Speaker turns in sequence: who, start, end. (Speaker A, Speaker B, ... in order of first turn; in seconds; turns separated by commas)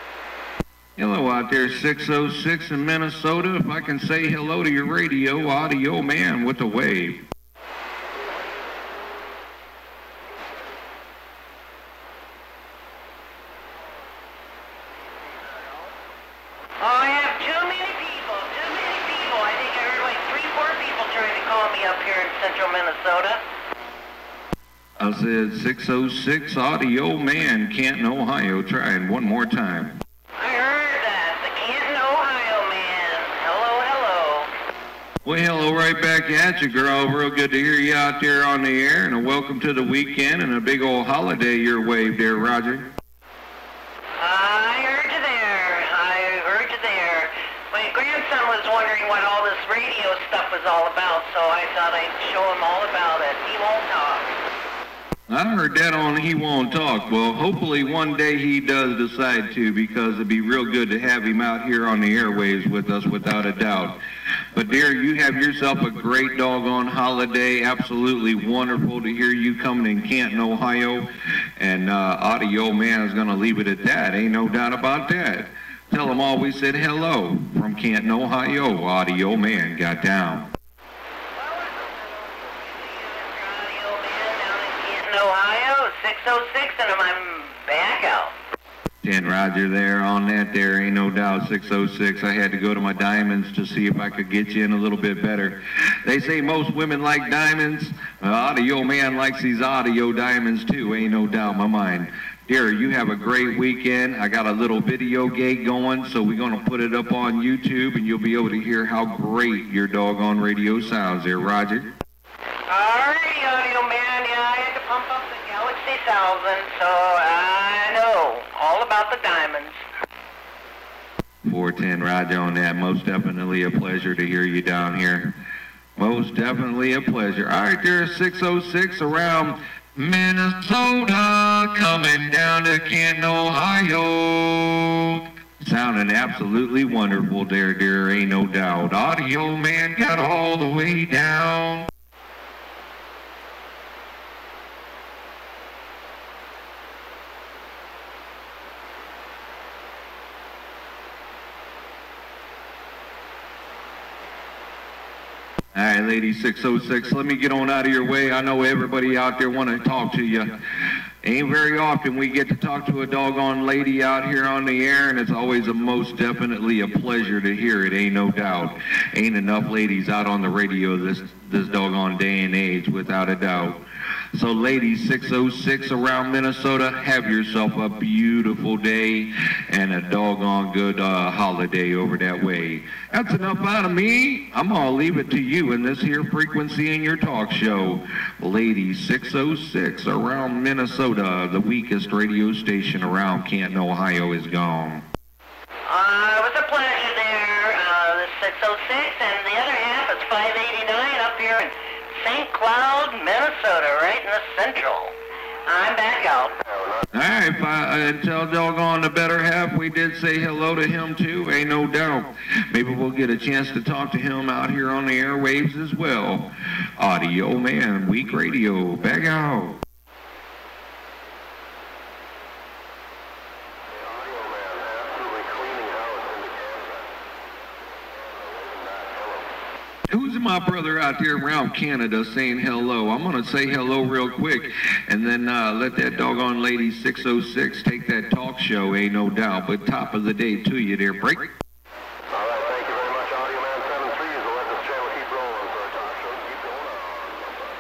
Speaker A: 1.0-7.2, Speaker B: 16.8-23.4, Speaker A: 25.0-30.0, Speaker B: 30.4-34.5, Speaker A: 35.2-42.9, Speaker B: 44.2-54.4, Speaker A: 55.3-64.0, Speaker A: 64.5-80.5, Speaker B: 81.4-88.3, Speaker A: 89.0-111.9, Speaker B: 112.7-119.8, Speaker A: 121.5-125.3, Speaker A: 126.0-141.9, Speaker A: 155.7-160.5, Speaker A: 161.2-173.8, Speaker A: 174.3-195.1, Speaker B: 195.9-205.2, Speaker B: 205.7-206.6, Speaker A: 207.1-219.8, Speaker C: 224.3-227.0, Speaker A: 230.1-241.5, Speaker C: 242.4-247.2